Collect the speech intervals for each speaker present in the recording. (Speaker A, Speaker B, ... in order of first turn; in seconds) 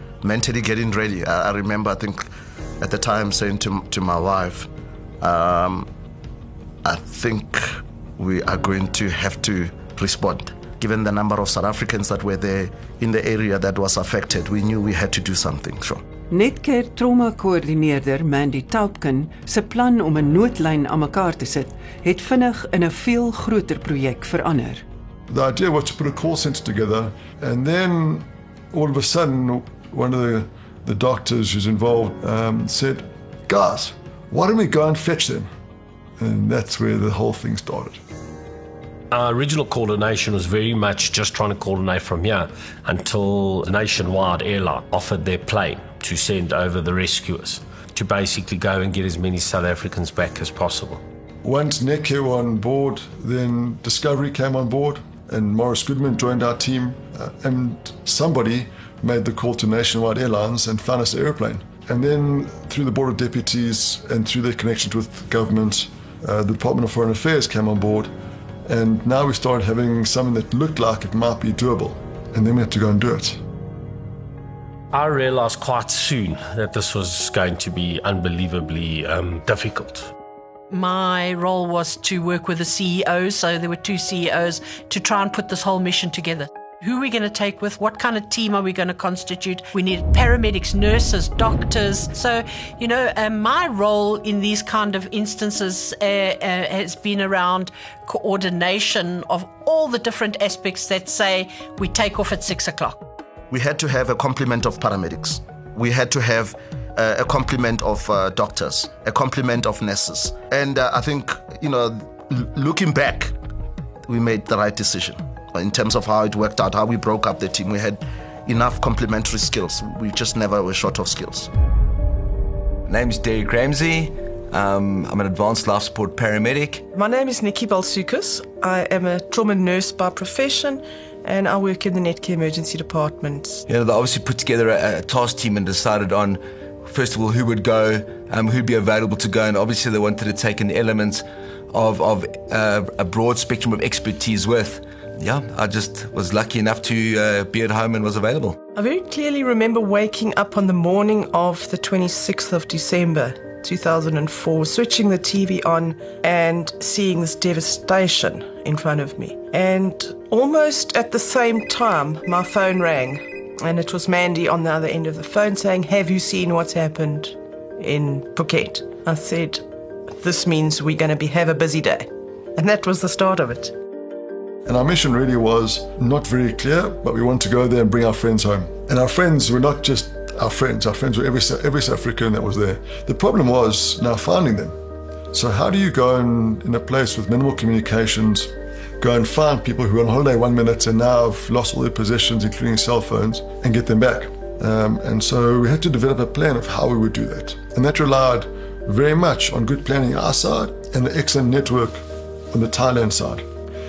Speaker A: 0.2-2.2, 2.8-5.9, 6.8-16.0, 103.5-113.3, 114.0-121.5
Speaker B: 16.3-24.8
Speaker C: 25.3-35.5, 36.2-38.0, 51.4-68.1, 68.6-73.4, 174.6-184.7, 185.3-203.4
Speaker D: 39.1-51.0, 74.9-80.1
Speaker E: 80.7-103.0
Speaker F: 122.8-126.8, 133.7-148.6
Speaker G: 126.9-133.6, 148.7-173.7